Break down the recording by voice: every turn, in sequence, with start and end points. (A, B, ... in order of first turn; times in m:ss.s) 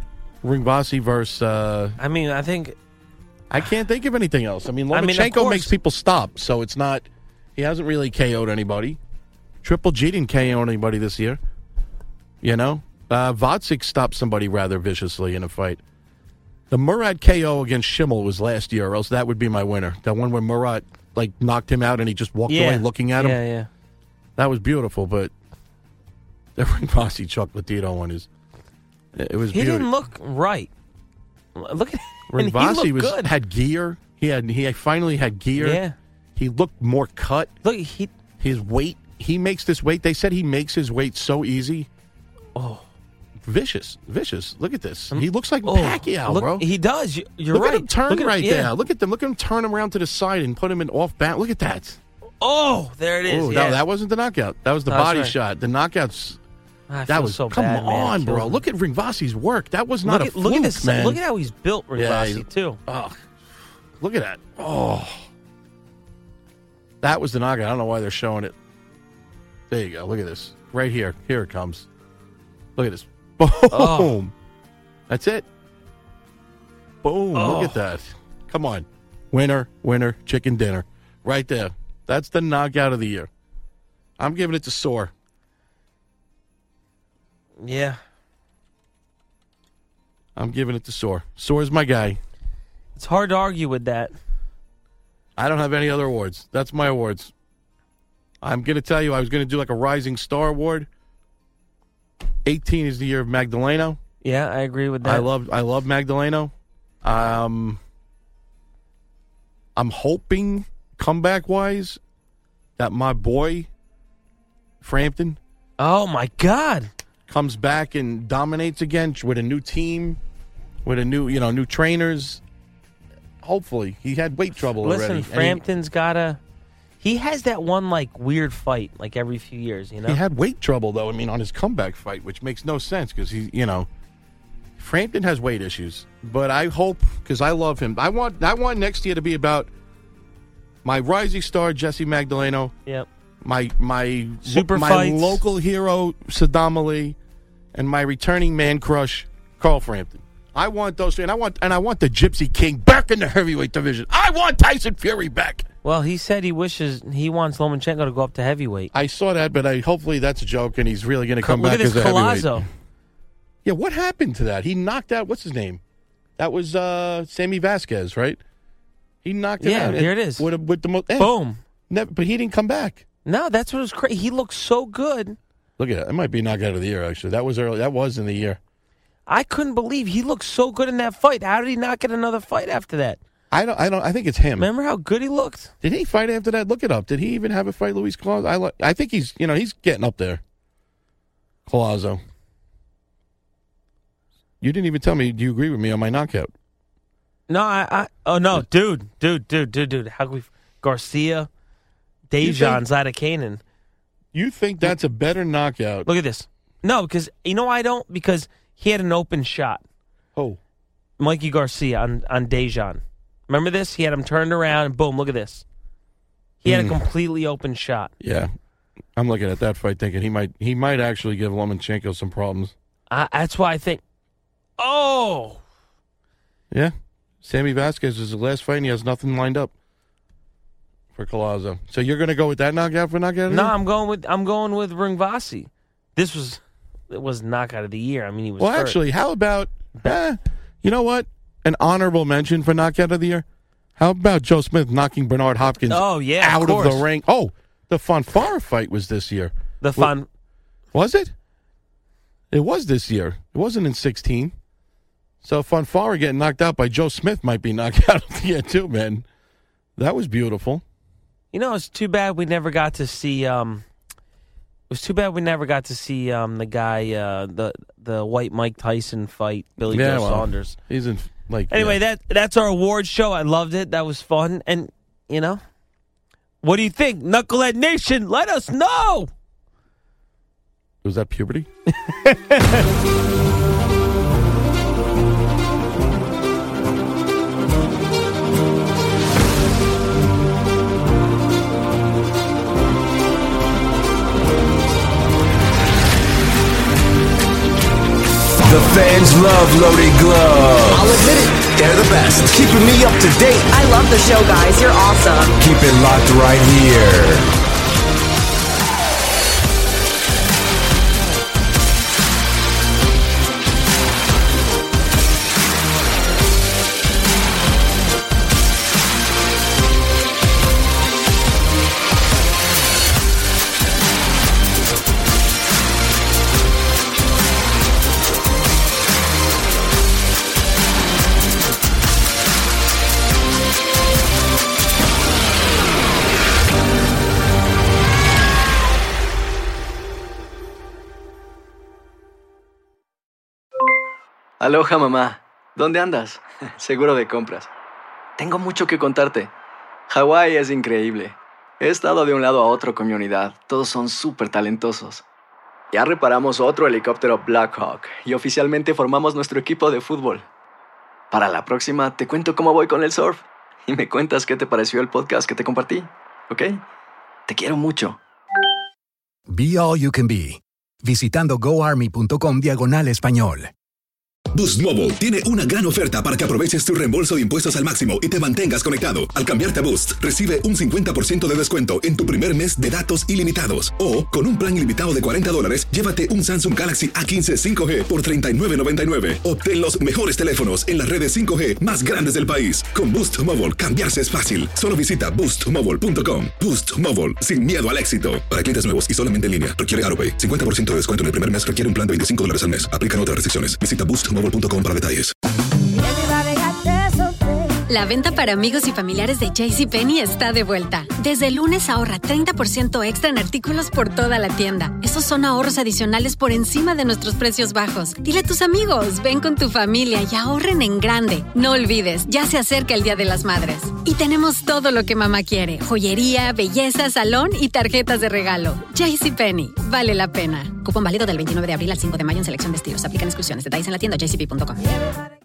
0:00.4-0:02.0 A
0:02.0-0:02.8 B
0:03.5-0:09.0 A
0:04.9-0:05.7 B
0:09.6-0:11.4 A
0:12.4-0:15.8 A
0:16.7-0:23.4 A
0:22.5-0:23.7 B
0:24.4-0:25.3 A
0:26.6-0:28.3 A
0:29.2-0:29.9 A
0:29.5-0:30.7 B
0:31.6-0:33.3 B
0:32.3-0:35.8 A
0:35.6-0:36.0 B
0:36.4-0:37.5 A
0:37.6-0:38.1 B
0:38.4-0:41.9 A
0:42.6-0:42.8 B
0:43.4-0:46.7 A
0:45.1-0:48.7 B
0:47.5-0:52.0 A
0:52.4-0:53.8 B
0:53.3-0:56.4 A
0:54.9-0:55.4 B
0:56.9-0:58.6 B
0:57.1-1:01.2 A
1:00.0-1:02.8 B
1:02.0-1:03.2 A
1:04.0-1:05.2 A
1:07.0-1:08.6 A
1:09.7-1:11.9 A
1:12.8-1:14.3 A
1:13.7-1:14.1 B
1:15.1-1:15.5 A
1:17.0-1:23.3 A
1:17.3-1:17.8 B
1:24.2-1:25.1 A
1:27.6-1:28.0 B
1:30.4-1:32.2 A
1:33.0-1:34.1 B
1:35.4-1:37.3 A
1:38.4-1:40.9 A
1:42.4-1:44.0 A
1:44.2-1:45.3 B
1:45.0-1:46.5 A
1:47.0-1:47.8 A
1:49.8-1:52.0 A
1:52.8-1:53.7 A
1:54.8-1:55.4 A
1:55.8-1:56.9 B
1:57.3-2:00.2 A
2:00.8-2:02.4 A
2:03.4-2:05.6 A
2:04.8-2:06.4 B
2:07.0-2:10.2 B
2:10.0-2:13.9 A
2:14.8-2:19.7 A
2:20.8-2:22.7 A
2:23.4-2:27.2 A
2:24.4-2:25.4 B
2:27.7-2:35.7 A
2:35.8-2:38.9 B
2:38.9-2:42.6 A
2:41.4-2:42.7 B
2:43.6-2:45.8 A
2:46.4-2:48.4 A
2:49.2-2:51.3 A
2:49.6-2:50.5 B
2:51.2-2:51.6 B
2:51.9-2:53.1 A
2:53.2-2:55.4 B
2:55.8-2:58.6 A
2:59.3-3:03.2 B
3:03.5-3:04.7 A
3:04.6-3:05.7 B
3:05.8-3:10.4 A
3:11.7-3:12.2 A
3:14.6-3:16.5 A
3:17.5-3:21.5 B
3:22.3-3:23.6 B
3:22.4-3:22.8 A
3:24.3-3:26.1 A
3:26.1-3:29.8 B
3:31.2-3:35.6 B
3:36.6-3:38.1 B
3:36.7-3:37.0 A
3:38.2-3:38.5 A
3:39.2-3:42.7 A
3:43.1-3:44.0 B
3:44.8-3:45.6 B
3:46.7-3:49.7 A
3:51.1-3:53.8 A
3:53.5-3:59.0 B
3:58.6-4:03.4 A
4:04.0-4:10.2 A
4:05.9-4:07.1 B
4:09.8-4:10.3 B
4:10.9-4:11.3 A
4:12.5-4:14.5 A
4:15.4-4:19.3 A
4:20.0-4:20.8 A
4:21.5-4:23.8 B
4:24.9-4:30.8 B
4:29.8-4:32.0 A
4:31.7-4:35.6 B
4:36.6-4:39.3 B
4:41.0-4:41.7 A
4:41.9-4:42.9 B
4:58.6-5:03.6 C
5:00.9-5:01.7 D
5:03.6-5:05.5 D
5:05.6-5:07.5 C
5:44.6-5:47.7 E
5:48.4-5:49.5 E
5:50.1-5:55.2 E
5:55.9-6:00.5 E
6:01.3-6:06.8 E
6:07.5-6:08.2 E
6:09.5-6:13.7 F
6:14.5-6:45.4 G
6:47.9-7:14.8 H